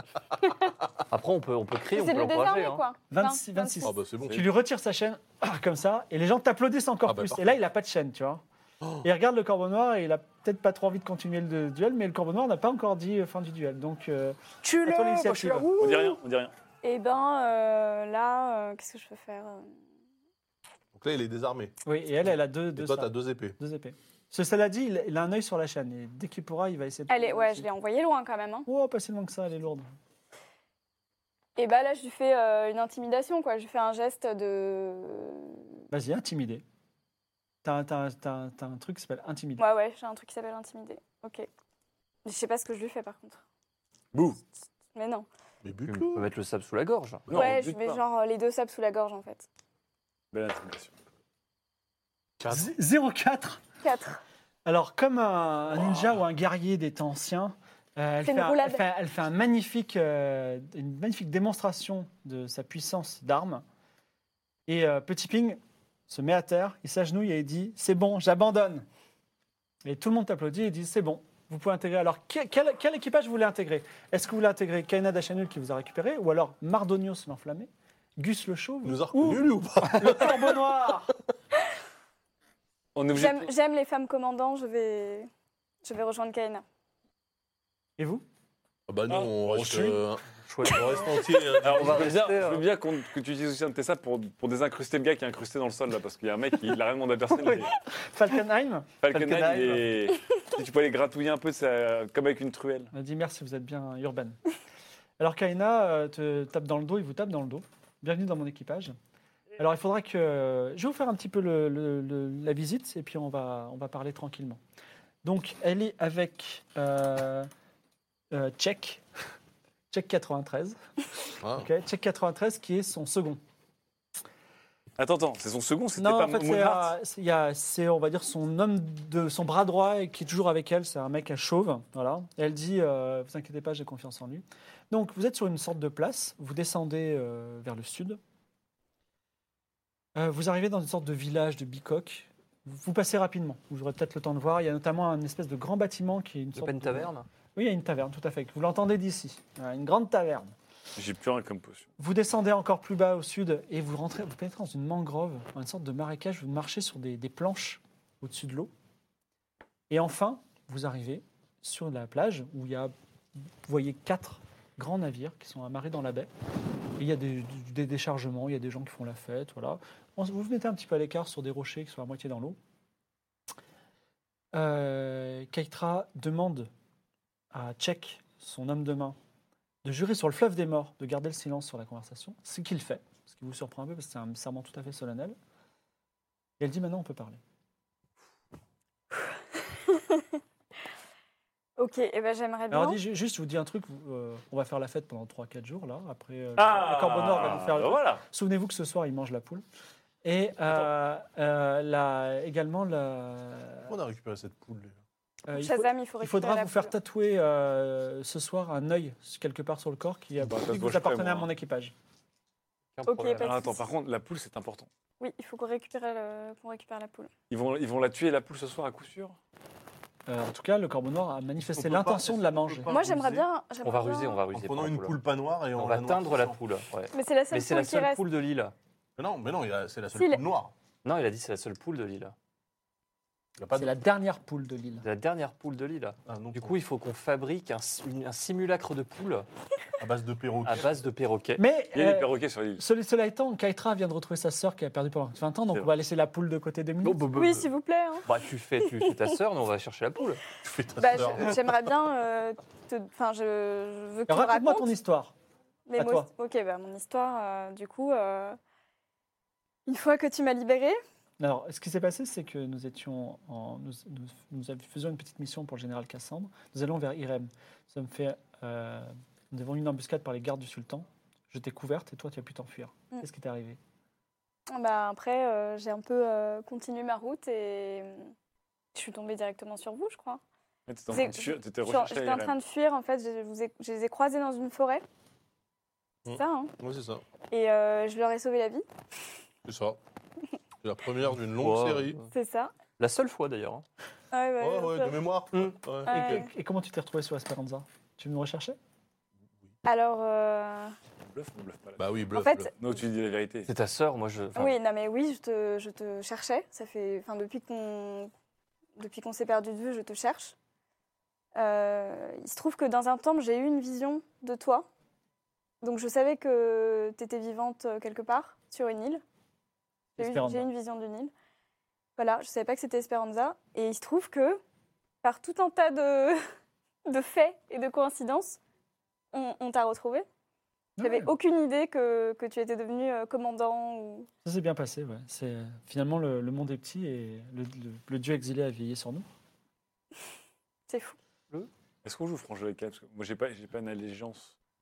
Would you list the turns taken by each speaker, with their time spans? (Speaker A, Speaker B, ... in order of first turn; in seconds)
Speaker A: 1.1-2.8, 45.9-47.2, 90.5-91.0, 91.6-92.6, 97.4-97.7, 99.1-99.9, 146.6-147.3, 212.9-213.5, 223.8-225.2, 225.7-228.7, 231.0-232.3, 235.0-239.5, 240.7-241.6, 247.0-247.7, 248.2-250.4, 291.6-292.3, 293.0-293.8, 303.6-304.8
Speaker B: 1.9-3.9, 14.7-16.2, 16.8-19.7, 27.1-28.7, 31.6-35.6, 39.6-41.5, 42.2-43.4, 44.9-45.2, 47.3-49.4, 53.8-54.2, 58.2-58.8, 83.1-85.3, 85.8-86.6, 189.2-190.3, 191.8-193.0, 205.5-206.9, 213.1-213.8, 215.2-217.3, 222.9-224.4, 227.1-228.2, 230.1-230.4, 247.3-248.3, 251.0-254.9, 255.9-258.6, 259.9-261.0, 274.7-278.3, 278.9-280.4, 281.1-285.0, 286.3-286.7, 287.5-288.8, 292.3-292.7, 294.3-295.2, 296.1-296.5, 299.8-300.9, 302.3-302.7, 304.5-308.3, 309.0-310.5, 311.5-314.9, 315.8-319.2, 320.2-321.3, 322.2-324.6, 325.2-326.4, 327.1-328.6, 329.3-330.2, 331.0-334.3, 340.9-341.1
Speaker C: 3.1-8.4, 9.0-15.7, 21.8-27.7, 28.6-29.9, 35.9-36.6, 37.6-39.6, 52.5-53.6, 54.6-63.6, 64.7-68.9, 69.8-81.1, 88.0-88.2, 98.0-98.9, 102.9-104.3, 105.2-108.9, 109.6-114.6, 115.2-117.5, 118.3-119.0, 119.9-120.8, 121.5-123.4, 126.0-138.2, 140.2-150.5, 152.0-158.7, 159.9-162.9, 163.6-166.3, 167.0-172.6, 174.5-176.7, 177.5-179.2, 179.8-185.3, 186.6-187.4, 192.7-199.6, 200.2-203.9, 205.5-211.9, 220.3-222.9, 233.7-235.0, 241.6-247.3, 254.3-255.3, 255.9-256.3, 261.4-273.8, 296.1-298.8, 320.2-320.7, 331.0-331.3, 334.4-339.2
Speaker D: 3.8-4.5, 7.0-7.6, 20.9-21.7, 22.8-23.6, 45.6-46.3, 47.3-47.5, 52.4-52.7, 78.8-80.7, 88.9-92.2, 121.4-121.7, 203.9-205.0, 221.7-223.5, 224.5-226.6, 229.2-230.7, 233.6-234.0, 236.3-236.8, 240.0-241.0, 250.6-251.8, 286.2-287.2, 289.6-290.0, 290.8-292.2, 294.6-296.4, 302.0-302.7
Speaker E: 15.8-16.5, 44.1-44.4, 47.3-48.0, 50.3-50.9, 83.0-83.5, 89.1-90.0, 91.6-97.7, 99.0-102.9, 125.0-126.9, 150.9-151.9, 196.6-198.2, 210.4-211.5, 213.4-214.9, 217.5-219.4, 241.9-242.8, 280.9-282.5, 301.3-302.1, 302.8-303.7, 342.0-344.5